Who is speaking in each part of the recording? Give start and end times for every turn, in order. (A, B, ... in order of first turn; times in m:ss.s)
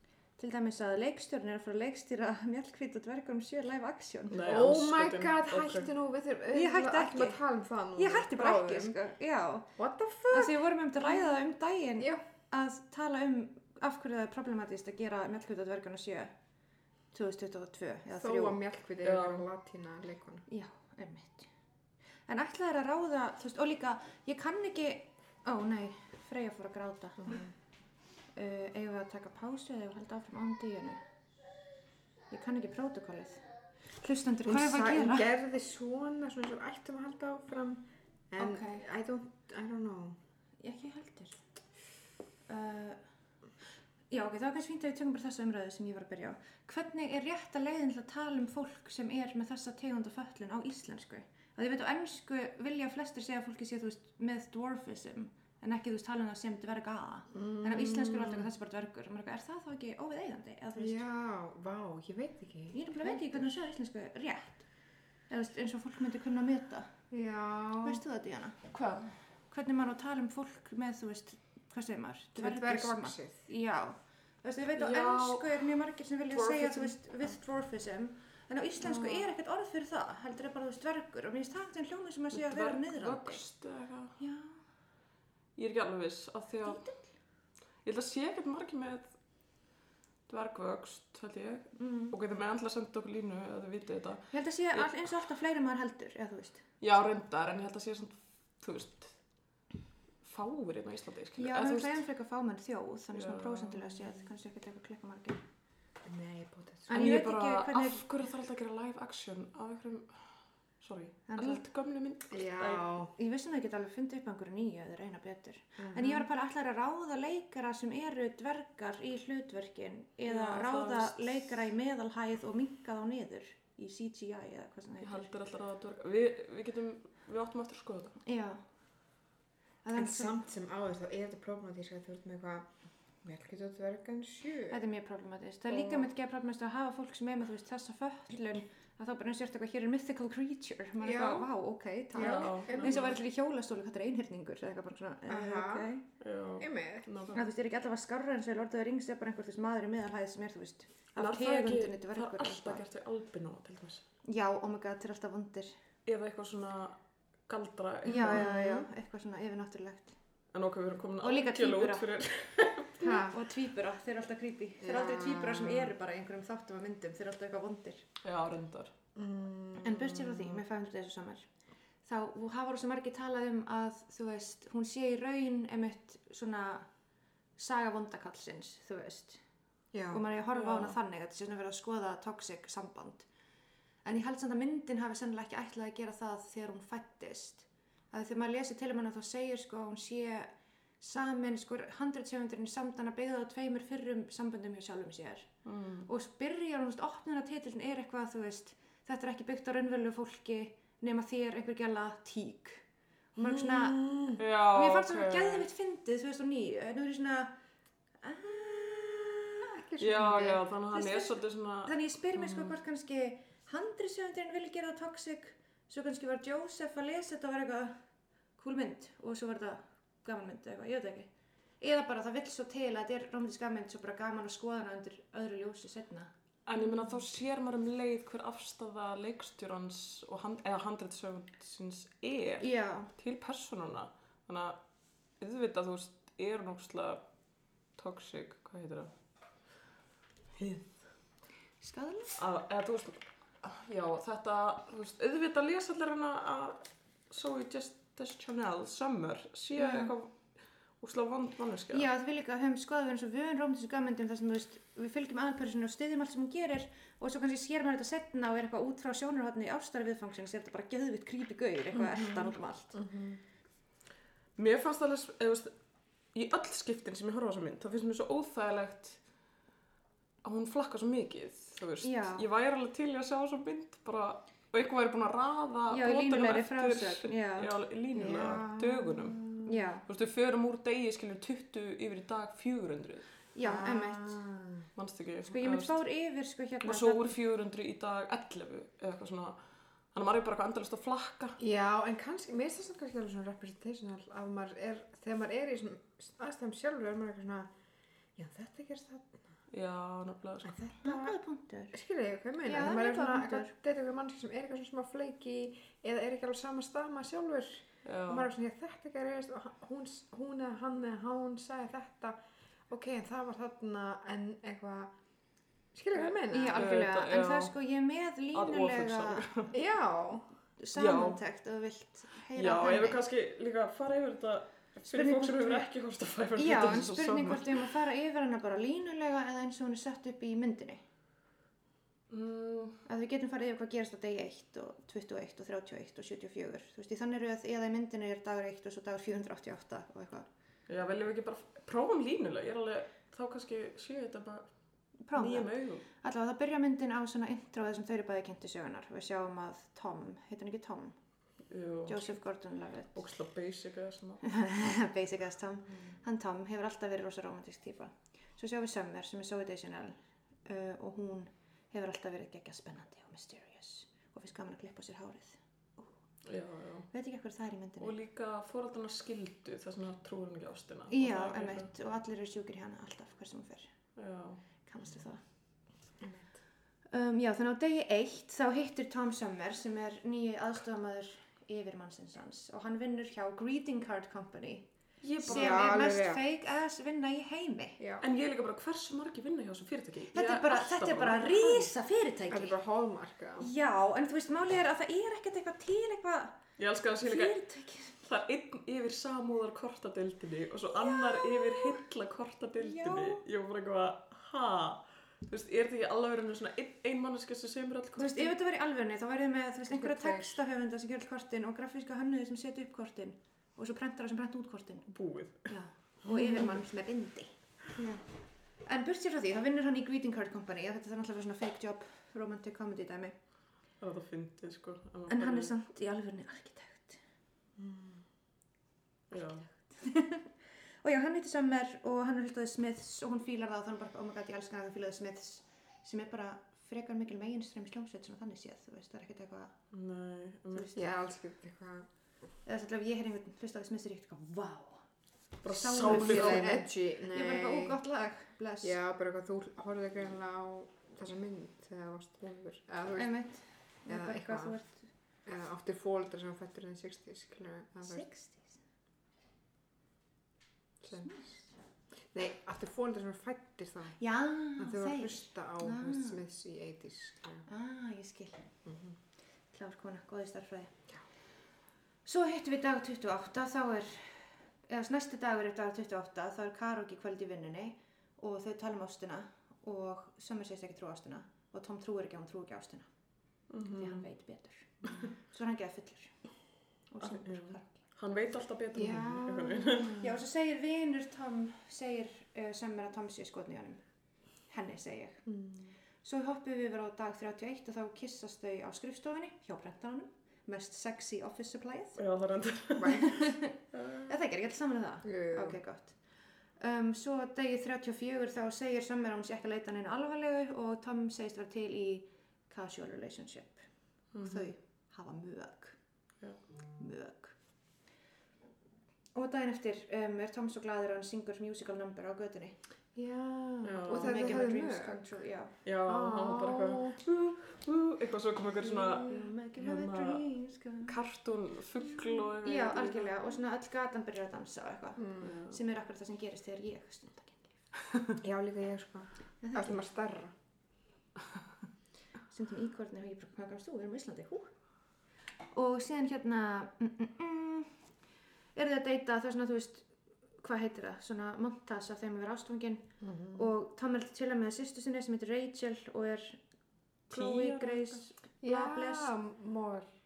0:00.4-0:04.4 A
0:04.3-0:05.9 B
0:04.4-0:09.0 C
0:06.5-0:07.4 A
0:08.0-0:09.8 A
0:09.8-0:10.7 C
0:10.3-0:16.3 A
0:17.1-0:18.6 A
0:18.2-0:20.4 C
0:19.0-0:19.5 B
0:20.5-0:21.5 A
0:22.3-0:27.4 A
0:27.2-0:27.5 C
0:28.3-0:31.0 A
0:32.3-0:35.3 A
0:34.4-0:40.2 C
0:38.4-0:38.9 A
0:40.6-0:41.4 A
0:42.5-0:43.0 A
0:44.1-1:01.0 A
0:57.3-0:58.5 C
1:00.8-1:03.6 C
1:02.7-1:04.7 A
1:05.3-1:06.9 A
1:07.1-1:08.0 C
1:07.8-1:08.6 A
1:08.7-1:09.1 B
1:09.5-1:23.4 A
1:12.4-1:13.4 C
1:14.8-1:15.6 B
1:16.3-1:17.0 B
1:18.8-1:19.3 B
1:22.3-1:24.2 B
1:24.2-1:24.6 A
1:25.6-1:26.9 B
1:26.6-1:27.0 A
1:27.8-1:29.1 B
1:30.3-1:35.1 B
1:31.8-1:32.2 A
1:34.3-1:36.6 A
1:36.8-1:39.2 B
1:40.2-1:42.0 B
1:41.4-1:45.4 A
1:43.1-1:44.0 B
1:46.0-1:47.1 C
1:46.9-1:48.0 A
1:46.9-1:52.9 B
1:51.3-1:51.6 A
1:52.3-1:53.1 C
1:53.2-2:05.3 A
1:55.8-1:56.2 C
2:00.3-2:01.5 B
2:05.0-2:08.2 B
2:08.2-2:08.6 A
2:09.8-2:10.4 A
2:09.9-2:12.7 C
2:13.2-2:14.8 C
2:14.7-2:26.0 A
2:15.7-2:16.1 B
2:21.0-2:21.5 C
2:22.1-2:23.0 C
2:22.2-2:23.2 B
2:25.3-2:25.9 C
2:26.2-2:27.4 B
2:26.6-2:27.1 C
2:27.3-2:32.9 A
2:31.2-2:34.1 B
2:34.2-2:35.8 A
2:36.1-2:38.5 B
2:38.1-2:40.2 A
2:38.2-2:38.9 C
2:40.5-2:43.2 B
2:41.2-2:42.2 A
2:43.0-2:43.4 C
2:43.1-2:48.1 A
2:44.8-2:45.9 C
2:48.2-2:48.9 B
2:49.1-2:50.6 C
2:49.8-2:51.5 A
2:52.1-2:56.9 A
2:57.6-2:59.4 A
2:59.9-3:00.2 C
3:00.1-3:03.3 A
3:00.5-3:01.0 B
3:04.0-3:15.5 A
3:15.6-3:16.1 B
3:16.1-3:22.8 A
3:23.4-3:24.0 A
3:23.4-3:24.4 C
3:24.4-3:25.6 B
3:24.6-3:27.5 A
3:28.2-3:29.7 A
3:29.7-3:30.6 C
3:30.0-3:32.7 B
3:30.9-3:38.0 A
3:38.6-3:46.3 A
3:46.6-3:54.8 B
3:52.6-3:53.1 A
3:55.4-3:57.2 B
3:58.0-3:59.1 B
4:00.6-4:00.9 B
4:01.8-4:02.4 A
4:02.4-4:12.1 B
4:09.8-4:10.1 A
4:11.9-4:23.0 A
4:22.0-4:23.4 C
4:24.6-4:25.7 B
4:26.3-4:29.2 B
4:30.4-4:39.4 B
4:32.0-4:32.4 A
4:35.9-4:38.6 A
4:38.2-4:39.8 C
4:39.6-4:40.0 A
4:40.1-4:43.3 B
4:43.5-4:44.4 A
4:43.6-4:44.9 C
4:45.0-4:46.0 B
4:45.5-4:47.4 A
4:46.8-4:49.6 B
4:50.1-4:51.6 B
4:51.6-4:57.7 C
4:58.4-4:59.5 C
4:59.7-5:00.8 B
5:00.6-5:01.4 C
5:01.0-5:02.0 A
5:01.9-5:12.4 C
5:02.6-5:03.7 A
5:08.0-5:08.5 B
5:12.9-5:15.1 C
5:15.9-5:16.9 C
5:16.2-5:17.7 B
5:16.5-5:19.5 A
5:18.5-5:19.7 B
5:19.7-5:20.5 C
5:20.8-5:23.2 A
5:21.0-5:21.4 B
5:22.6-5:27.9 B
5:25.0-5:25.9 A
5:26.6-5:31.0 A
5:32.3-5:33.0 B
5:33.1-5:40.5 A
5:40.9-5:44.7 B
5:45.2-5:51.1 A
5:45.4-5:46.0 B
5:51.7-5:52.4 B
5:52.1-5:53.2 A
5:53.1-5:54.4 B
5:54.4-6:06.1 A
6:06.4-6:07.1 B
6:07.1-6:08.1 A
6:08.0-6:11.9 B
6:11.1-6:13.9 A
6:14.2-6:14.6 B
6:14.9-6:15.4 A
6:17.1-6:24.9 A
6:25.2-6:25.9 B
6:25.4-6:28.0 A
6:25.4-6:26.4 C
6:28.0-6:28.2 C
6:28.2-6:31.9 B
6:30.3-6:32.8 A
6:32.5-6:33.7 C
6:33.6-6:36.6 A
6:36.8-6:37.6 B
6:37.2-6:38.2 A
6:38.1-6:48.6 B
6:40.9-6:42.0 A
6:42.8-6:43.4 A
6:48.2-6:55.1 A
6:49.9-6:50.6 C
6:55.1-6:55.7 B
6:55.7-6:58.2 A
6:56.3-6:56.6 C
6:58.8-7:03.4 A
7:04.0-7:05.7 B
7:05.3-7:07.2 A
7:07.8-7:08.2 C
7:09.3-7:09.7 B
7:09.8-7:10.5 A
7:11.0-7:19.7 A
7:19.9-7:20.9 B
7:20.7-7:21.0 A
7:21.0-7:22.1 C
7:22.6-7:25.0 A
7:25.6-7:26.8 B
7:25.6-7:29.0 A
7:26.0-7:28.0 C
7:28.8-7:33.4 C
7:33.2-7:35.1 A
7:34.1-7:34.8 C
7:35.5-7:38.2 C
7:38.1-7:38.8 A
7:41.0-7:41.4 C
7:41.2-7:41.5 A
7:42.3-7:44.2 C
7:44.2-7:46.4 A
7:44.8-7:47.6 C
7:47.6-7:48.7 A
7:48.9-7:49.1 C
7:49.7-7:50.9 A
7:52.2-8:03.1 A
8:03.7-8:04.2 B
8:04.0-8:06.4 A
8:07.1-8:08.0 A
8:07.2-8:10.2 B
8:08.9-8:10.3 C
8:10.2-8:14.0 A
8:14.7-8:15.4 A
8:15.5-8:15.9 C
8:16.2-8:22.2 A
8:22.2-8:24.3 B
8:23.1-8:26.2 A
8:25.2-8:25.8 C
8:26.8-8:33.9 A
8:34.3-8:34.7 B
8:34.4-8:36.0 A
8:37.0-8:37.6 A
8:39.4-8:42.8 A
8:43.1-8:45.3 C
8:43.8-8:44.6 B
8:44.1-8:45.8 A
8:45.8-8:50.4 B
8:46.1-8:47.2 C
8:48.8-8:51.2 A
8:51.0-8:53.4 B
8:52.2-8:57.8 A
8:55.2-8:55.6 C
8:55.4-8:55.8 B
8:58.4-9:00.5 C
8:59.6-9:00.0 A
9:02.5-9:04.7 A
9:05.7-9:07.9 A
9:08.8-9:16.6 A
9:13.2-9:13.7 C
9:17.3-9:19.4 A
9:17.3-9:18.3 B
9:18.6-9:20.1 C